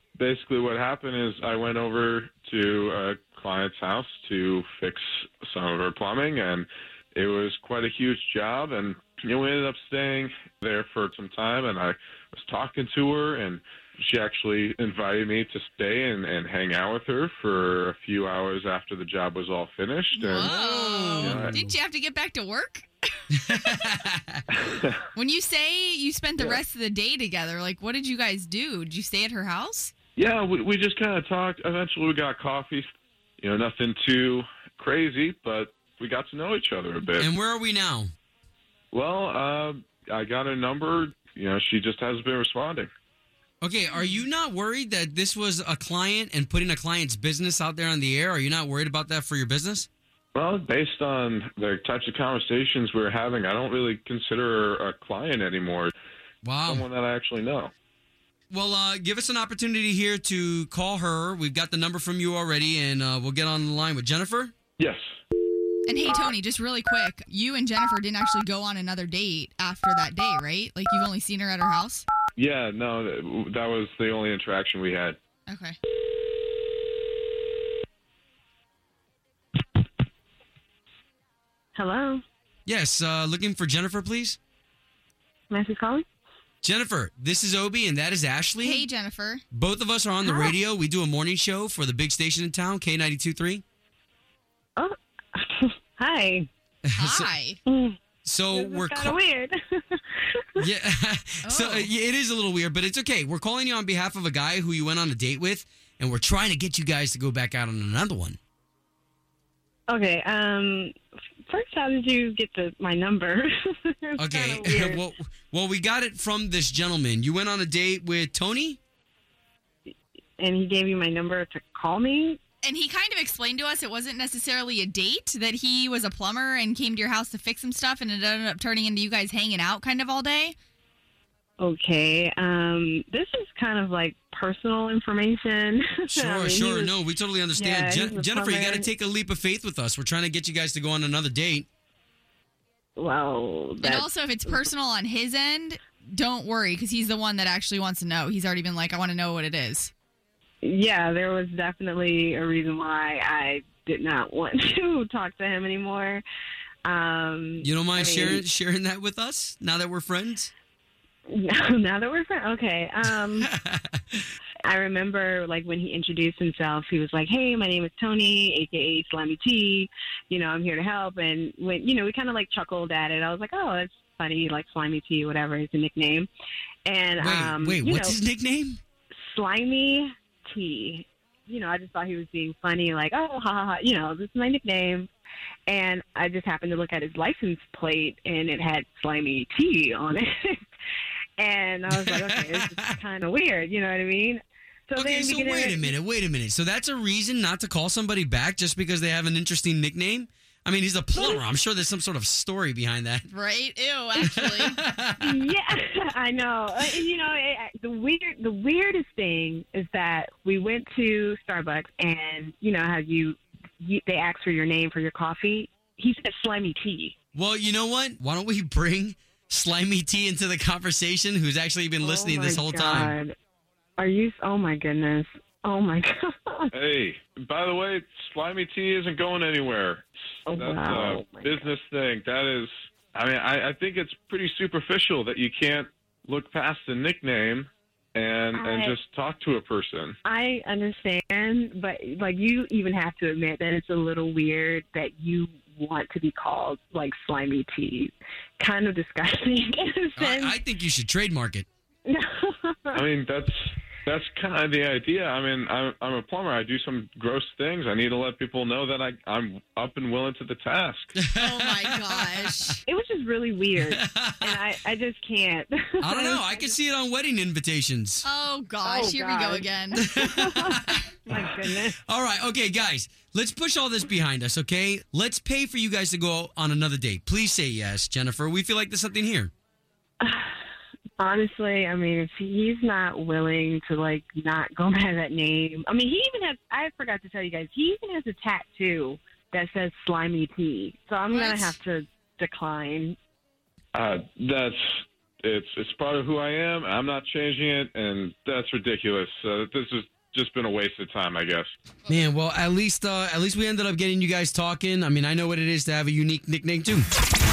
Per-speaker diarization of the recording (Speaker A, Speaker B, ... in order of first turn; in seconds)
Speaker A: 0.2-20.5, 21.2-21.6, 24.7-24.9, 30.2-32.9, 33.4-37.3, 38.9-42.9, 50.3-55.9, 56.7-57.7, 72.4-75.2, 226.7-240.2, 252.9-261.1, 293.9-301.7
Speaker B: 20.1-22.9, 25.1-29.9, 43.9-44.2, 65.9-72.1, 75.5-75.8, 88.6-89.4, 97.0-97.6, 101.4-101.9, 122.6-130.6, 143.8-149.9, 203.3-204.8, 261.4-262.8, 268.2-270.1, 291.3-291.8
Speaker C: 20.3-21.7, 23.4-24.4, 37.2-38.1, 43.6-49.9, 56.4-56.9, 58.5-64.5, 82.7-84.4, 86.6-88.8, 89.5-93.6, 96.9-97.3, 98.2-99.2, 100.6-108.4, 114.2-118.8, 136.1-141.7, 157.6-160.5, 163.4-164.0, 177.2-178.8, 191.9-193.0, 195.0-203.3, 204.3-205.4, 217.3-223.2, 250.2-251.7, 261.2-262.8, 263.8-264.6, 266.0-268.2, 270.0-271.4, 272.0-279.5, 302.1-307.1
Speaker D: 81.8-82.2, 85.5-86.0, 90.2-90.5, 94.8-96.5, 97.7-98.0, 98.5-100.6, 109.9-110.9, 111.5-115.0, 120.4-122.4, 131.6-136.9, 137.6-138.9, 143.0-144.7, 150.6-156.2, 156.8-158.4, 161.3-163.5, 164.6-176.3, 176.9-178.2, 179.3-185.1, 185.7-190.6, 191.4-195.9, 201.1-201.4, 205.2-217.2, 222.0-223.3, 224.0-226.7, 230.5-231.7, 238.6-238.9, 240.2-250.6, 252.1-253.0, 262.9-266.8, 268.8-272.0, 280.2-280.5, 281.2-293.2